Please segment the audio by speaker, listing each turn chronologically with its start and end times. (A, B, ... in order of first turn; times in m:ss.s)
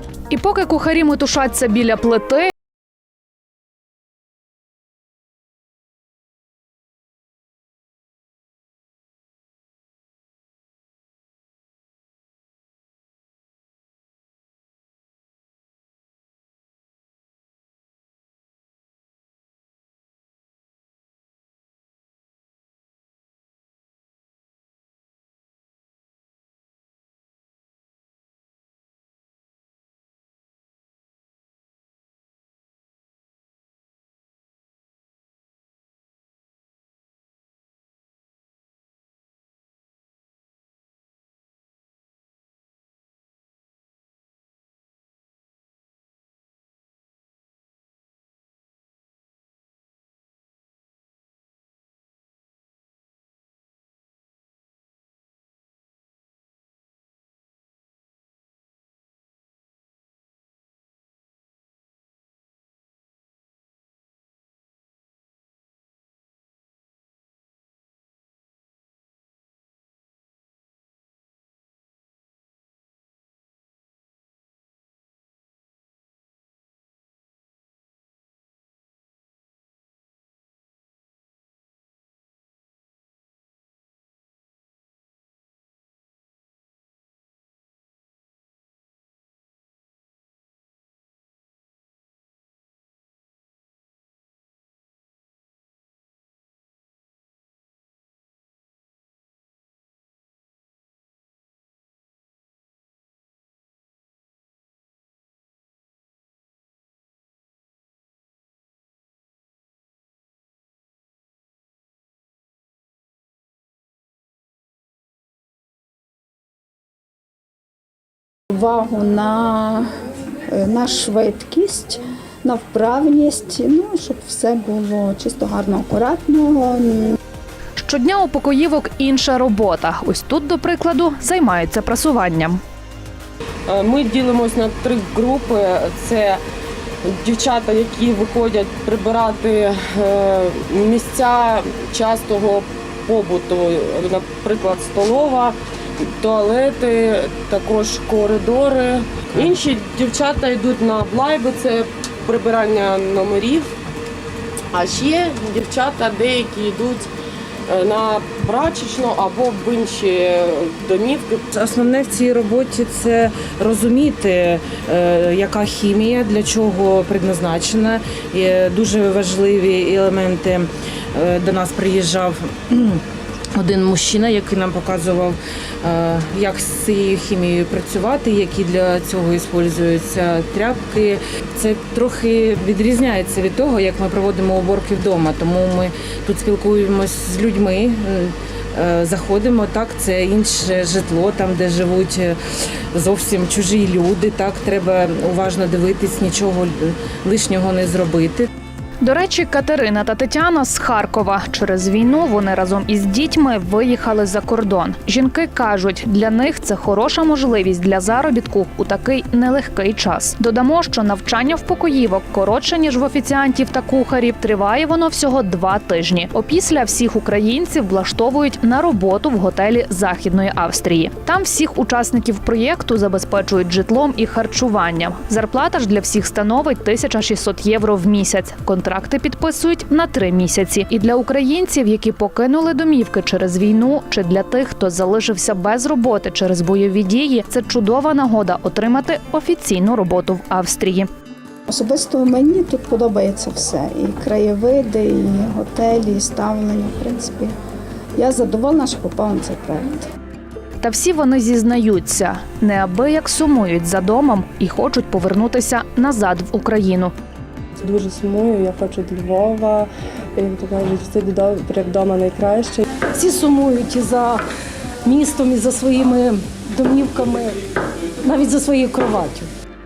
0:00.3-0:02.5 A
1:58.5-1:59.9 B
2:00.5-2:07.1 B
2:07.8-2:12.6 A
2:13.7-2:16.4 C
2:17.2-2:25.6 C
2:26.2-2:33.7 C
2:34.7-2:37.1 C
2:37.7-2:41.4 C
2:41.5-2:53.0 D
2:53.6-3:12.4 D
3:12.9-3:18.5 D
3:19.0-4:01.1 A
4:01.7-4:07.5 B
4:08.2-4:10.1 B
4:10.8-4:17.1 A
4:17.8-4:22.8 E
4:23.1-4:24.4 F
4:25.0-4:27.6 F
4:28.2-4:29.5 F